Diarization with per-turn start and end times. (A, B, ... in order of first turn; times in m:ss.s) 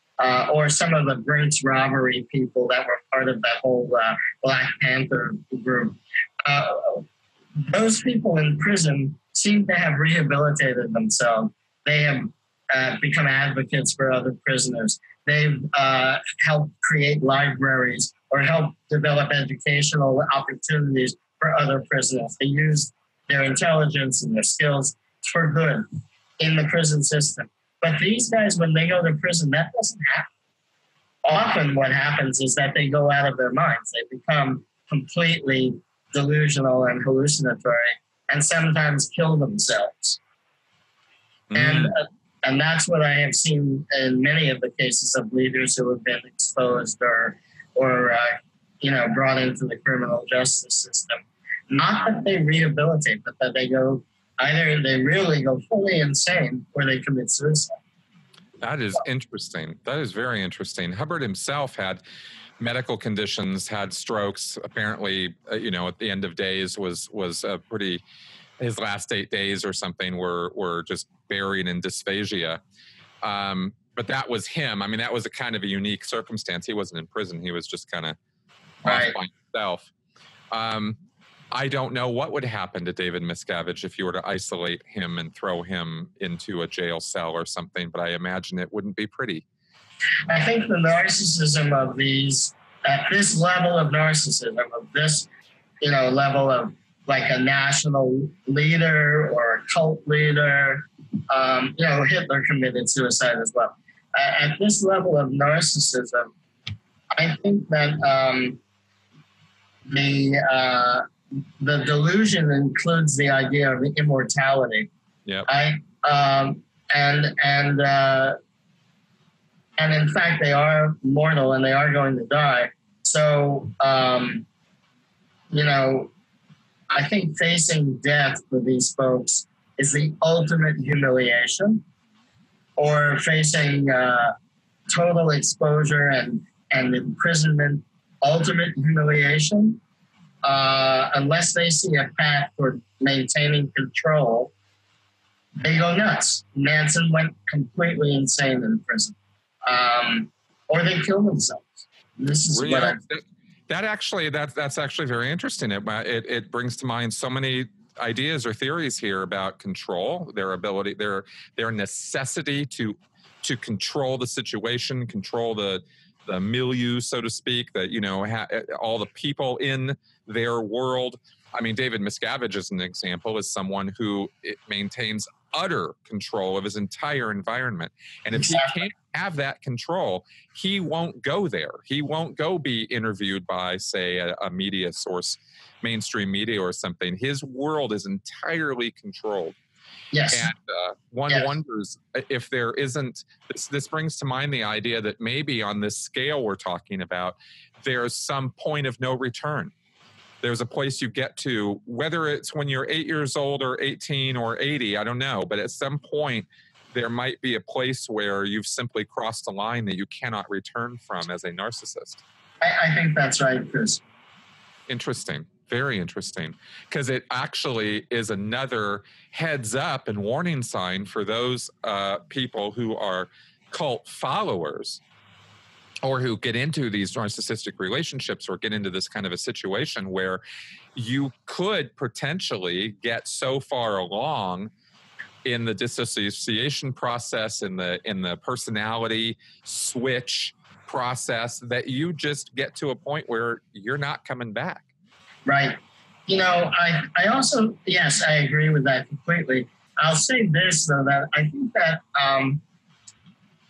0:00.2-0:07.0 A
0:07.7-0:25.9 A
0:26.4-0:30.3 A
0:31.2-0:40.2 A
0:41.5-0:41.9 B
0:41.6-0:57.8 A
0:58.6-1:02.0 B
1:02.6-1:08.0 B
1:08.6-1:12.6 B
1:13.2-1:18.2 B
1:18.8-1:19.9 B
1:18.8-1:19.2 A
1:20.5-1:21.0 B
1:21.5-1:29.4 B
1:30.3-1:35.3 A
1:35.8-1:46.3 A
1:47.2-1:48.6 A
1:49.9-1:51.1 A
1:51.6-1:54.9 A
1:55.5-1:58.4 A
1:59.8-2:04.5 A
2:05.5-2:06.1 A
2:06.9-2:11.8 A
2:12.8-2:14.3 A
2:14.9-2:19.8 A
2:20.4-2:24.5 A
2:25.6-2:33.0 A
2:32.5-3:09.6 B
2:58.3-2:58.8 A
3:10.1-3:10.5 A
3:10.3-3:19.7 B
3:20.4-3:32.2 B
3:32.6-3:34.0 A
3:34.9-3:45.0 B
3:46.0-3:50.4 B
3:51.0-3:54.7 B
3:55.4-4:04.9 B
4:05.5-4:12.6 A